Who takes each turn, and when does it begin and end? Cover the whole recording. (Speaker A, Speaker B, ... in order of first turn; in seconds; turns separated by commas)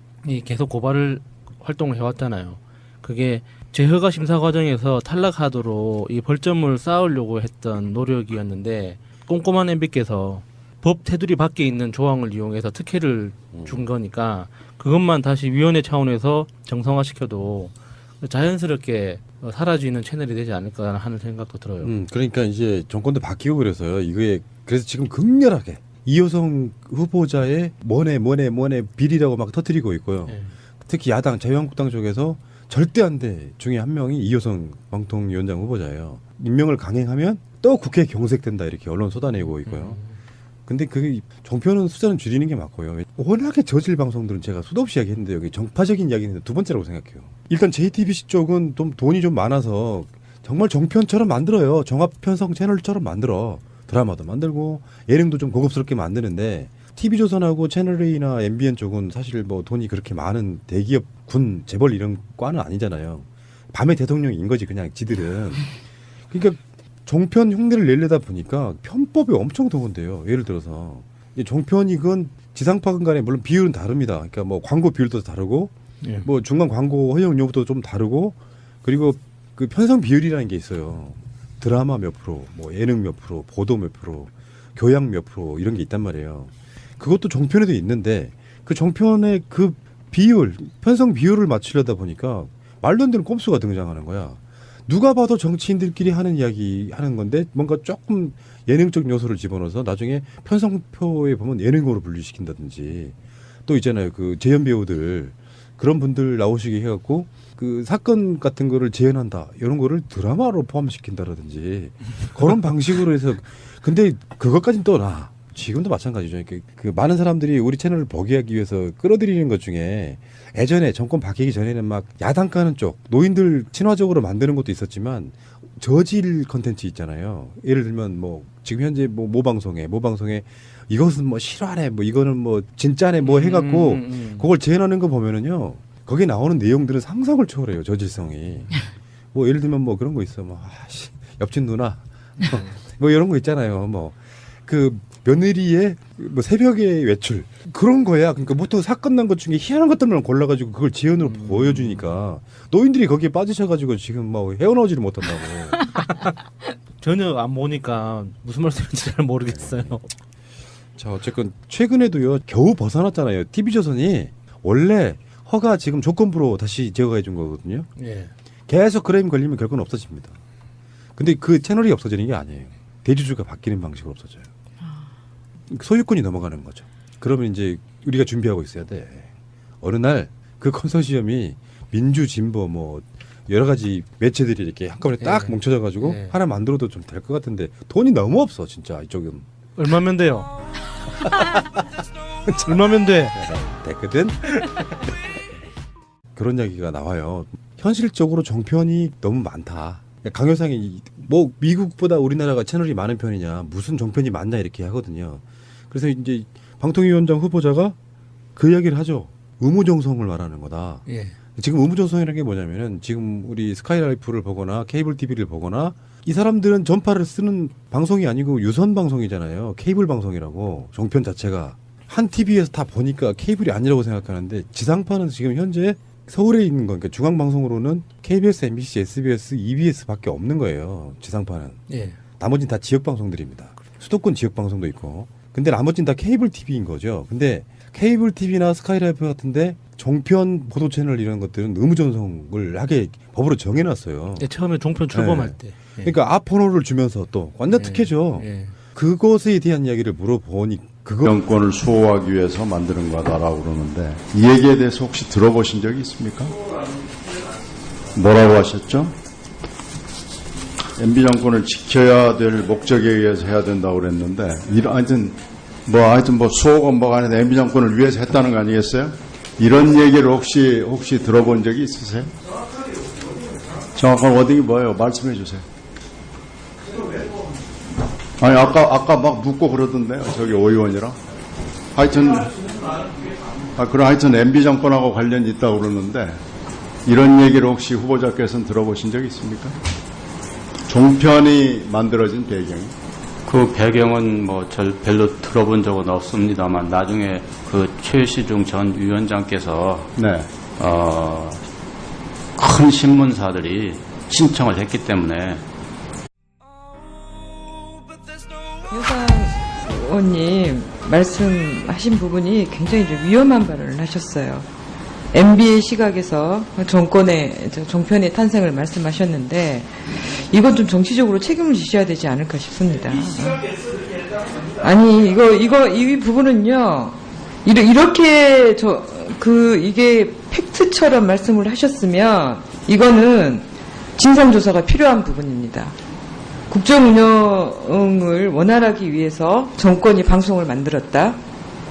Speaker A: 0.2-21.9, Speaker B: 13.5-13.8, Speaker B: 21.8-40.0, Speaker A: 30.3-30.5, Speaker A: 39.6-40.1, Speaker B: 40.7-65.7, Speaker B: 66.3-155.8, Speaker A: 76.0-76.3, Speaker A: 133.2-134.5, Speaker A: 151.2-152.1, Speaker A: 155.9-156.3, Speaker A: 157.0-160.1, Speaker B: 159.5-159.9, Speaker B: 160.9-167.9, Speaker A: 167.9-168.3, Speaker B: 168.7-170.3, Speaker B: 171.2-174.5, Speaker B: 175.7-179.3, Speaker B: 179.8-189.4, Speaker A: 185.2-186.3, Speaker A: 189.8-190.5, Speaker B: 191.2-191.7, Speaker B: 192.4-194.6, Speaker A: 192.6-193.4, Speaker B: 196.3-207.9, Speaker B: 208.5-211.0, Speaker A: 211.1-211.3, Speaker B: 211.6-231.8, Speaker A: 231.9-232.2, Speaker B: 232.4-244.5, Speaker A: 244.4-246.1, Speaker B: 245.1-251.3, Speaker A: 247.7-248.7, Speaker C: 251.2-256.6, Speaker C: 258.1-259.1, Speaker C: 261.0-272.3, Speaker C: 273.9-275.6, Speaker C: 278.4-281.2, Speaker C: 281.9-282.5, Speaker C: 283.8-286.4, Speaker C: 287.0-289.8, Speaker C: 290.9-292.9, Speaker D: 293.4-300.1, Speaker C: 300.1-300.5, Speaker D: 300.8-301.6, Speaker D: 302.6-305.6, Speaker E: 308.9-314.6, Speaker E: 315.3-323.7, Speaker E: 324.7-335.9, Speaker E: 336.7-341.4